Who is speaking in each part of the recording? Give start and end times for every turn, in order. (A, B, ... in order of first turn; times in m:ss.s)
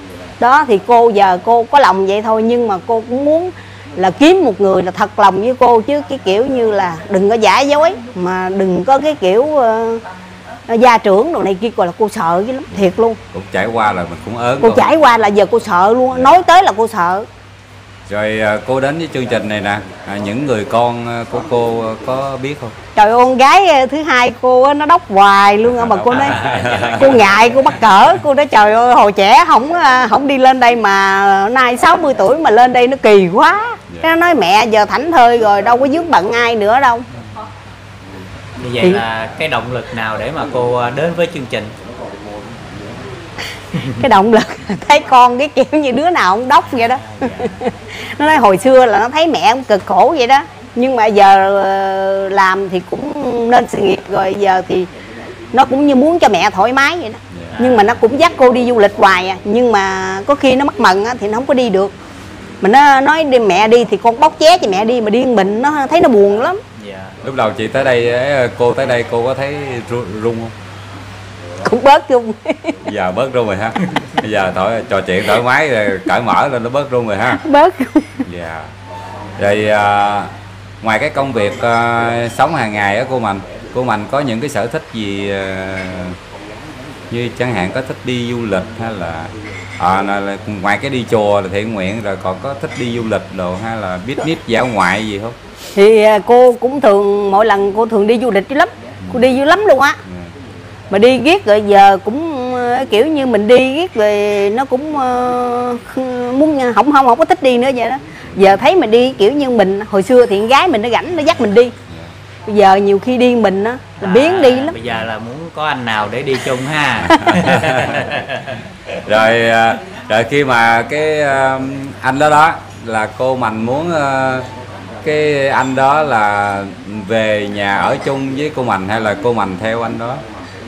0:00.4-0:10.0 A
0:10.7-0:13.2 A
0:13.3-0:14.9 B
0:14.6-0:17.2 A
0:18.1-0:22.8 B
0:22.9-0:26.4 A
0:25.6-0:27.2 B
0:26.1-0:27.6 C
0:27.0-0:37.0 A
0:38.6-0:41.7 C
0:44.0-0:54.9 A
0:46.8-0:47.6 C
0:55.5-1:01.9 A
0:57.3-0:57.6 B
0:57.5-0:58.0 C
1:02.6-1:06.6 A
1:06.8-1:07.2 C
1:07.2-1:10.5 B
1:11.6-1:12.8 A
1:12.8-1:17.4 B
1:17.3-1:18.2 A
1:18.2-1:18.7 B
1:19.4-1:26.2 B
1:27.1-1:35.4 B
1:35.7-1:40.0 A
1:39.0-1:39.3 B
1:40.0-1:40.3 B
1:40.9-1:51.7 A
1:52.4-1:54.8 A
1:54.0-1:58.6 C
1:57.0-1:58.1 B
1:59.0-2:04.5 B
2:05.0-2:10.2 B